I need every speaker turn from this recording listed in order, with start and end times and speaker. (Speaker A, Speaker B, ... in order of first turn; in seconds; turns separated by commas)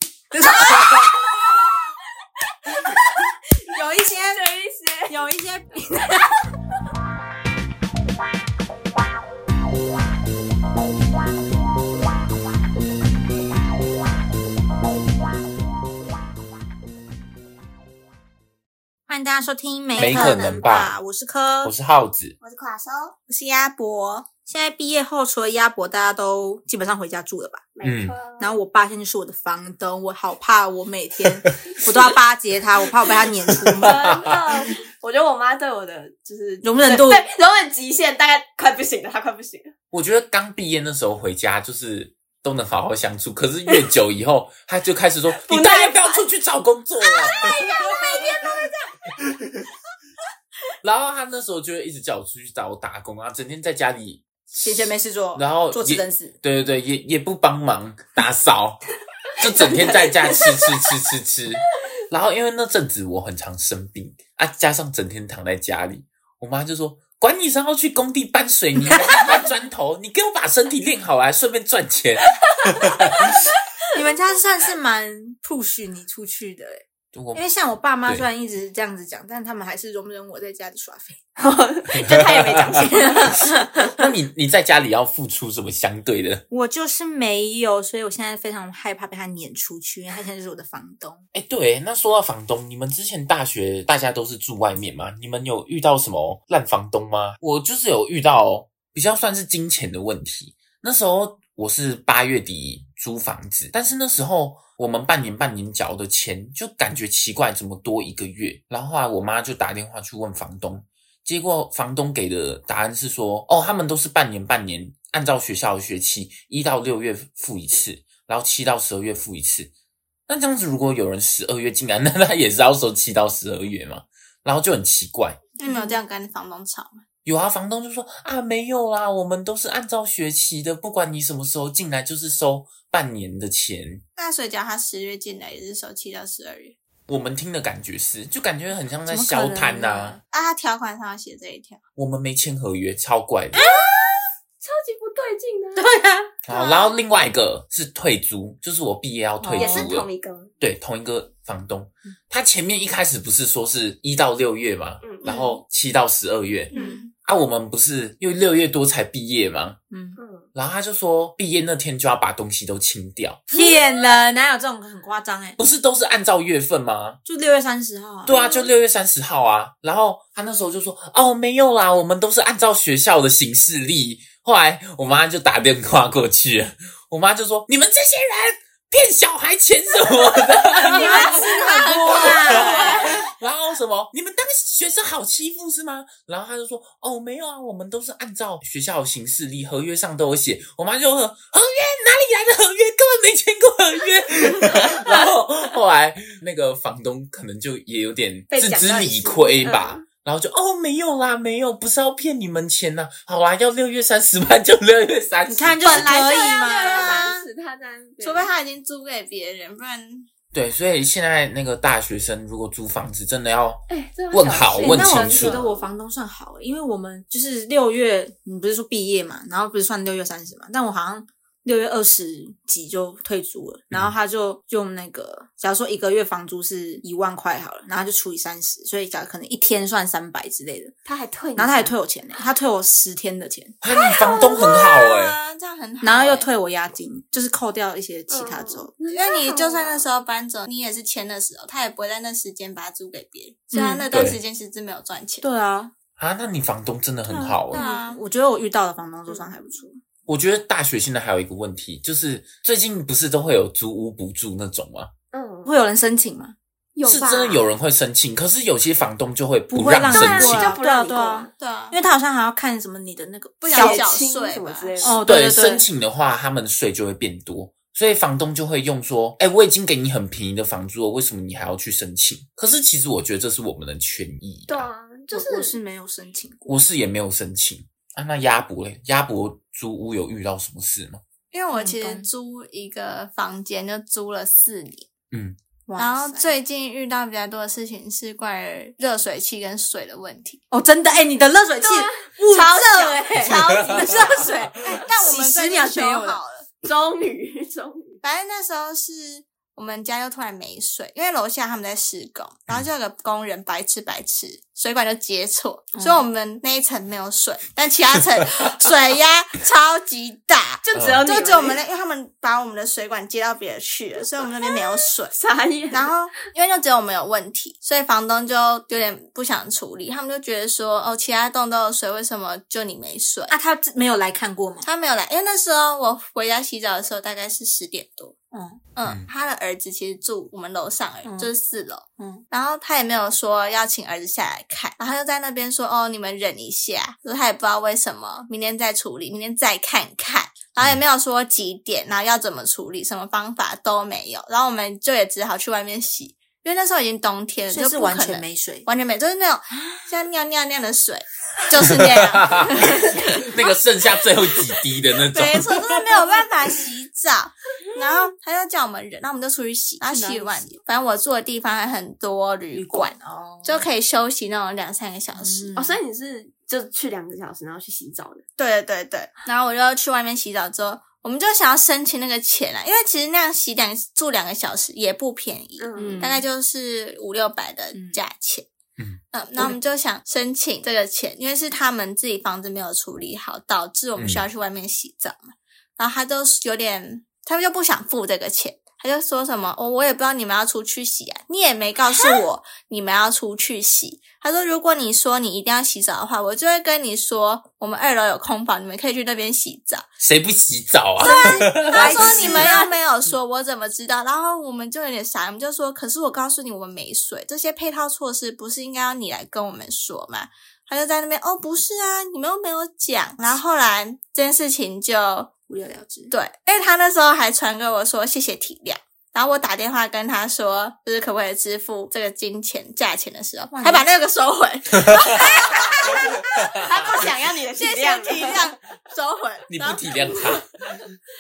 Speaker A: 0.3-1.6, Speaker A: 2.8-4.4, Speaker B: 4.3-5.1, Speaker A: 5.1-6.5, Speaker A: 19.1-21.7, Speaker C: 20.0-20.7, Speaker D: 20.0-20.9, Speaker D: 21.6-22.4, Speaker B: 22.4-23.1, Speaker C: 23.2-24.3, Speaker A: 24.5-27.7, Speaker B: 27.8-28.5, Speaker D: 27.8-28.2, Speaker A: 28.4-34.2, Speaker B: 33.8-39.7, Speaker D: 33.9-34.3, Speaker A: 36.6-37.2, Speaker D: 39.9-47.5, Speaker B: 45.3-46.2, Speaker C: 47.4-48.3, Speaker A: 47.4-48.7, Speaker D: 50.8-58.8, Speaker A: 54.5-56.3, Speaker D: 59.4-73.4, Speaker B: 59.6-60.9, Speaker A: 69.0-69.3, Speaker A: 73.9-81.3, Speaker D: 77.1-77.4, Speaker B: 81.4-83.6, Speaker D: 81.9-83.2, Speaker A: 82.8-83.9, Speaker D: 83.9-86.4, Speaker A: 86.5-91.2, Speaker D: 91.3-119.7, Speaker D: 120.3-125.4, Speaker C: 125.6-127.0, Speaker A: 125.6-126.0, Speaker D: 127.2-134.0, Speaker C: 134.2-136.8, Speaker D: 137.1-140.2, Speaker A: 139.1-140.2, Speaker C: 140.3-141.8, Speaker D: 142.0-143.6, Speaker B: 143.5-145.9, Speaker A: 143.6-143.9, Speaker A: 145.8-146.3, Speaker D: 146.5-156.7, Speaker A: 149.4-149.9, Speaker B: 149.5-150.5, Speaker B: 155.0-155.5, Speaker A: 156.7-157.0, Speaker C: 156.7-157.1, Speaker D: 157.2-159.8, Speaker A: 159.9-160.2, Speaker B: 160.2-160.5, Speaker D: 160.5-163.4, Speaker A: 163.5-165.6, Speaker D: 165.6-167.2, Speaker A: 167.2-168.3, Speaker D: 168.2-206.3, Speaker B: 168.3-168.7, Speaker A: 180.8-183.2, Speaker C: 180.8-183.2, Speaker B: 198.5-200.0, Speaker A: 205.5-207.3, Speaker C: 205.8-207.5, Speaker B: 205.8-208.5, Speaker C: 208.2-210.3, Speaker D: 210.5-215.6, Speaker B: 213.9-215.9, Speaker A: 214.8-230.9, Speaker B: 231.1-231.9, Speaker A: 231.6-233.8, Speaker D: 233.8-235.4, Speaker B: 234.2-234.7, Speaker C: 234.2-236.5, Speaker A: 236.0-238.9, Speaker B: 238.3-240.0, Speaker C: 239.1-245.5, Speaker A: 243.7-244.1, Speaker D: 244.1-244.4, Speaker A: 245.4-245.9, Speaker D: 246.2-247.8, Speaker A: 247.3-250.0, Speaker C: 247.7-248.2, Speaker D: 250.3-255.1, Speaker B: 255.3-255.7, Speaker A: 255.7-256.6, Speaker B: 256.9-257.7, Speaker D: 257.0-260.8, Speaker A: 259.7-264.1, Speaker B: 260.1-261.5, Speaker C: 261.6-262.0, Speaker C: 263.6-265.1, Speaker B: 263.7-265.2, Speaker A: 265.0-265.9, Speaker D: 265.2-274.9, Speaker B: 274.7-275.8, Speaker A: 275.3-276.8, Speaker D: 276.7-281.2, Speaker C: 281.5-285.1, Speaker A: 281.7-282.3, Speaker D: 285.3-285.6, Speaker A: 285.9-286.6, Speaker C: 286.0-290.6, Speaker A: 290.7-296.4, Speaker B: 291.8-294.5, Speaker C: 294.9-296.7, Speaker B: 296.8-298.2, Speaker C: 298.2-315.3, Speaker A: 305.9-306.2, Speaker B: 310.9-311.8, Speaker D: 311.0-311.2, Speaker B: 314.6-316.1, Speaker C: 315.9-323.5, Speaker A: 323.5-324.9, Speaker C: 324.8-328.4, Speaker A: 328.5-328.8, Speaker C: 329.0-353.7, Speaker D: 329.0-329.3, Speaker A: 331.2-331.5, Speaker A: 332.2-332.4, Speaker A: 347.7-348.9, Speaker D: 352.0-356.0, Speaker C: 355.3-363.1, Speaker A: 360.0-360.8, Speaker A: 362.7-363.9, Speaker C: 363.6-365.7, Speaker A: 365.4-366.0, Speaker B: 365.8-368.4, Speaker C: 368.6-378.7, Speaker B: 375.8-376.2, Speaker A: 376.0-376.5, Speaker A: 377.9-378.2, Speaker C: 379.3-400.1, Speaker D: 384.2-384.4, Speaker A: 392.1-392.4, Speaker D: 400.2-402.7, Speaker C: 401.2-415.5, Speaker A: 401.2-403.0, Speaker A: 415.7-416.3, Speaker C: 416.3-426.5, Speaker A: 423.7-424.1, Speaker A: 425.2-426.7, Speaker B: 426.8-428.7, Speaker C: 427.8-430.5, Speaker D: 429.7-430.7